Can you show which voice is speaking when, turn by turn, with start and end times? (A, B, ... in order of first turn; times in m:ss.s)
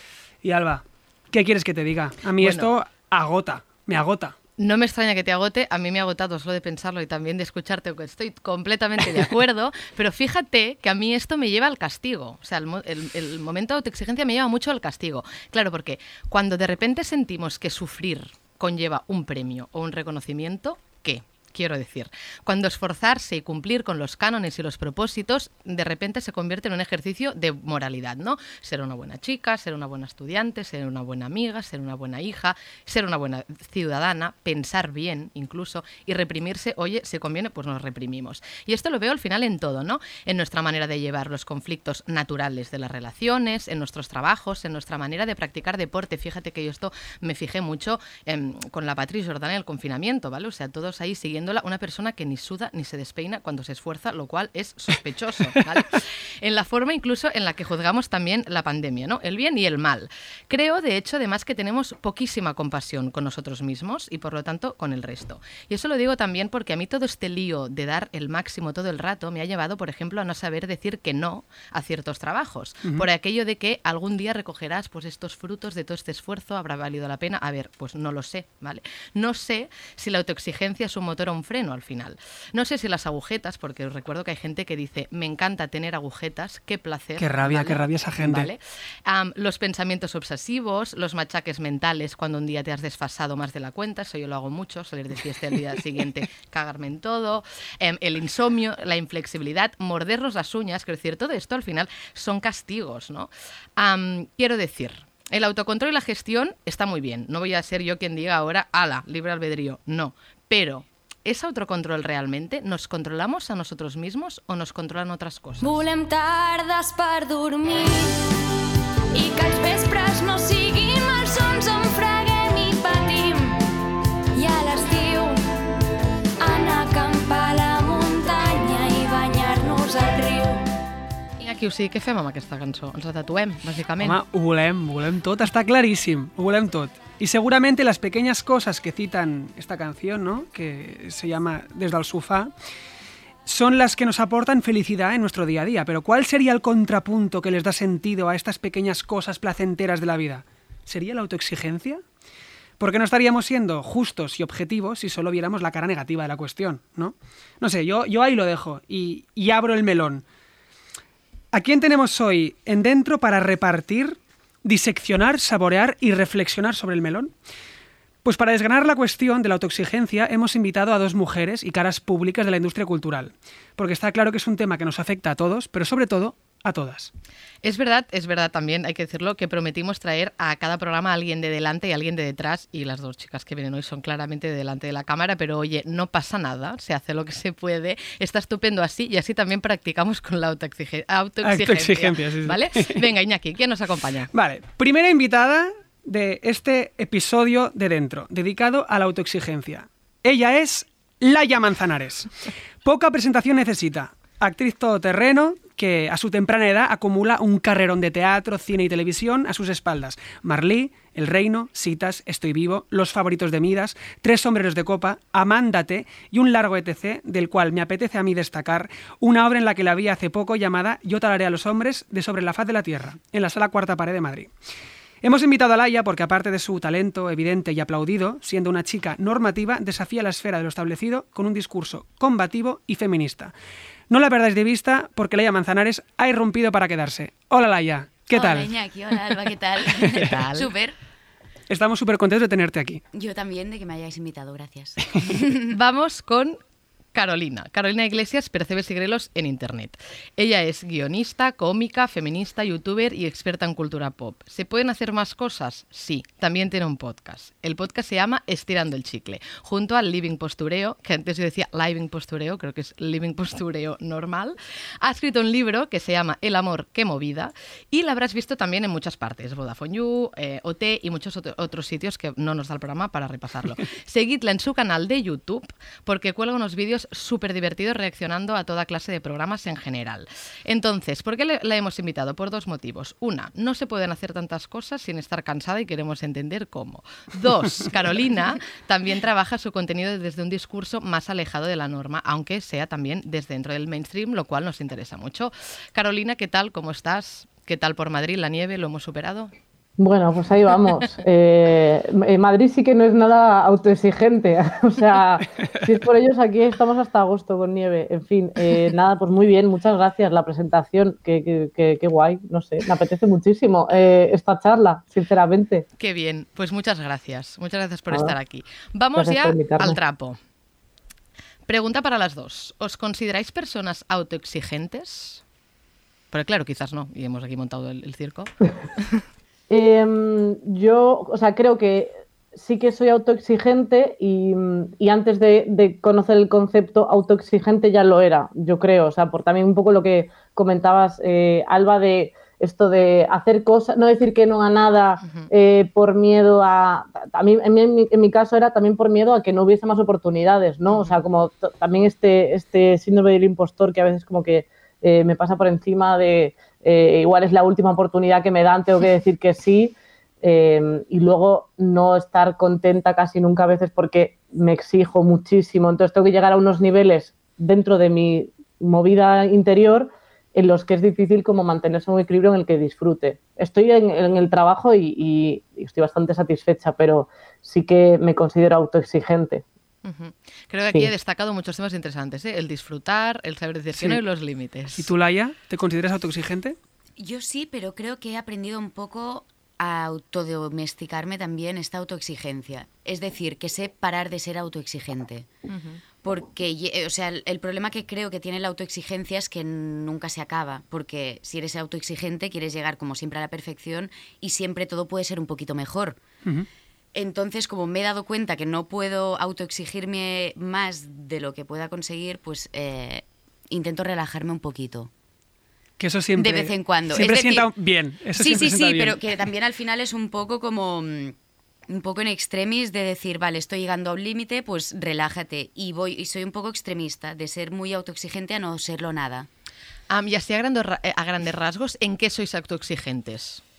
0:00.4-0:04.3 A
0:02.4-0:02.7 B
0:04.6-1:55.8 B
1:27.2-1:28.5 A
1:55.6-1:58.2 C
1:59.1-2:03.6 C
2:04.3-2:05.4 C
2:06.4-2:10.7 C
2:11.4-2:14.2 B
2:14.0-2:22.5 A
2:23.4-2:32.0 A
2:32.8-2:40.2 A
2:41.5-2:47.3 A
2:48.2-2:57.1 A
2:57.6-3:14.3 B
3:11.4-3:13.0 A
3:14.3-3:22.3 A
3:22.8-3:44.5 A
3:45.2-3:53.5 A
3:54.1-3:58.7 A
3:58.3-4:00.9 D
4:00.0-4:00.7 B
4:01.7-4:03.0 A
4:03.1-4:05.7 D
4:05.7-4:06.6 B
4:07.1-4:59.5 B
5:00.0-5:15.8 E
5:16.0-5:20.4 B
5:19.2-5:20.0 E
5:21.7-5:25.4 B
5:26.3-5:29.2 B
5:29.7-6:19.6 E
5:45.2-5:45.5 B
5:50.9-5:51.2 B
6:20.0-6:25.1 B
6:24.9-6:26.8 A
6:27.2-6:35.5 D
6:35.7-6:36.0 B
6:36.2-6:46.2 D
6:47.1-6:55.1 D
6:56.0-6:59.2 A
6:56.4-6:57.7 D
6:58.4-7:01.3 D
7:01.9-7:09.5 D
7:10.1-7:13.6 B